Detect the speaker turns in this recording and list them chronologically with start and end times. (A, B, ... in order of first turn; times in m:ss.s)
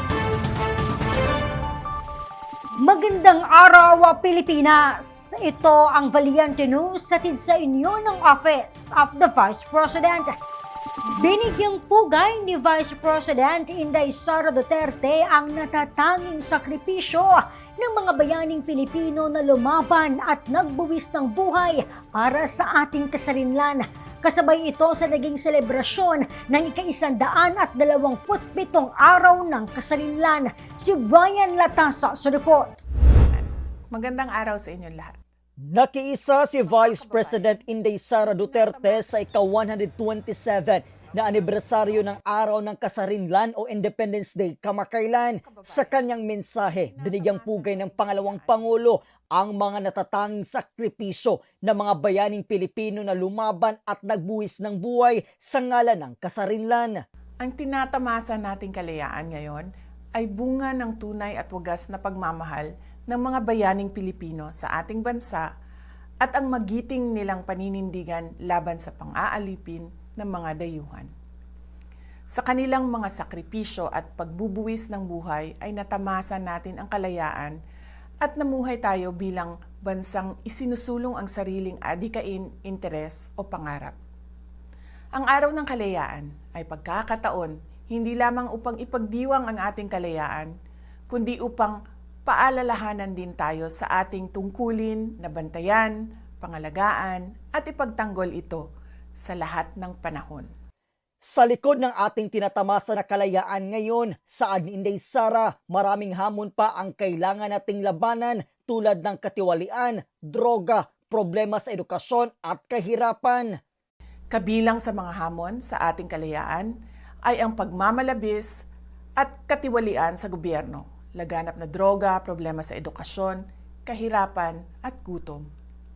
0:02.8-0:10.3 A
0:11.2-0:32.7 A
0:33.2-0:35.1 B
0:35.7-0:57.0 C
0:36.7-0:37.6 B
0:38.3-0:39.0 B
0:45.4-0:46.0 B
0:46.7-0:48.8 B
0:57.4-0:59.6 B
1:00.2-1:05.4 B
1:06.2-1:11.1 B
1:12.3-1:17.6 B
1:18.2-1:24.0 B
1:25.2-1:30.5 B
1:31.1-1:31.7 B
1:32.2-1:38.6 B
1:39.2-1:40.4 B
1:41.2-1:53.6 C
1:54.3-1:56.7 B
1:57.3-1:58.5 B
1:59.2-2:05.4 B